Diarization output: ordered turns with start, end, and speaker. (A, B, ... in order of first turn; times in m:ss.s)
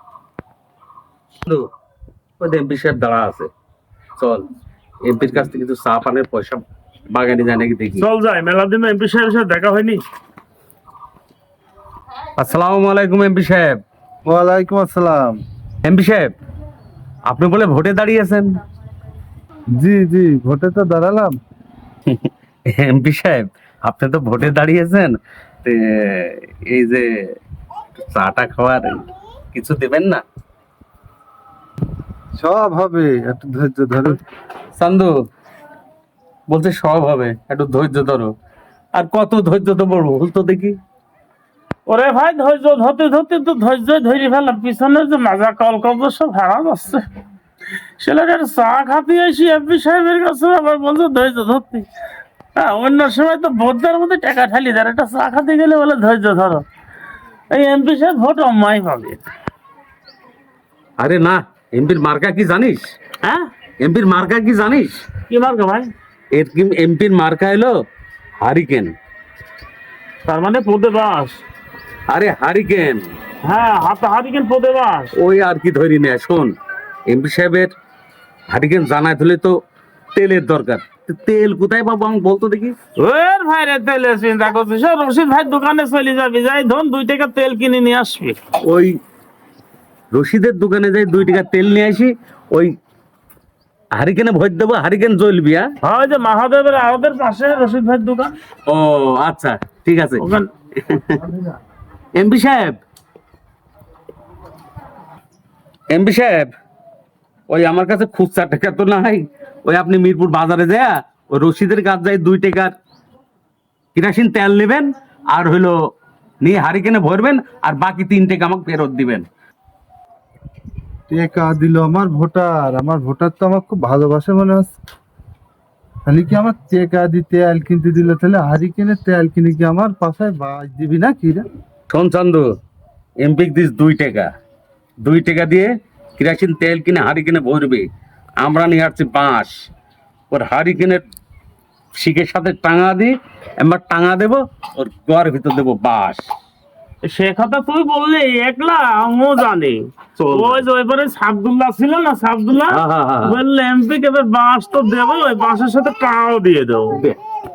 0:02.4-0:03.5 A
0:04.2-0:04.4 A
0:05.0-0:08.0 A
0:08.0-0:10.0 B
0:12.4-0:13.8 A
0:14.2-0:15.4 C
0:15.8-0:16.3 A
0:17.3-0:18.5 A
0:19.8-0:21.4 C
0:22.1-0:27.3 A
0:28.0-0:30.2 A
0:32.4-0:34.2 C
0:34.7-0:35.1 A
0:36.5-0:38.3 A
0:38.9-0:40.8 A
0:41.9-0:47.1 B
0:48.0-0:51.9 B
0:52.6-0:56.6 B
0:57.5-0:59.2 B
1:01.0-1:03.0 A
1:03.2-1:03.5 B
1:03.8-1:05.0 A
1:05.3-1:05.9 B
1:06.3-1:07.8 A
1:08.4-1:08.9 A
1:10.2-1:11.4 B
1:12.1-1:13.1 A
1:13.4-1:15.1 B
1:15.1-1:16.5 A
1:17.1-1:17.7 A
1:18.5-1:19.6 A
1:20.1-1:22.8 A
1:23.0-1:28.4 B
1:28.6-1:29.0 A
1:30.1-1:32.7 A
1:33.9-1:35.7 A
1:35.8-1:38.3 B
1:38.7-1:41.2 A
1:40.2-1:40.5 B
1:42.1-1:42.8 A
1:45.9-1:46.5 A
1:47.5-1:52.7 A
1:53.9-1:55.8 A
1:56.4-1:59.2 A
2:01.1-2:04.7 C
2:06.0-2:11.4 C
2:11.9-2:12.5 A
2:13.2-2:14.3 A
2:15.0-2:17.9 A
2:18.4-2:19.5 A
2:20.3-2:21.0 A
2:21.9-2:26.2 A
2:27.0-2:37.0 B
2:30.2-2:30.6 A
2:32.7-2:33.4 A
2:36.9-2:37.2 A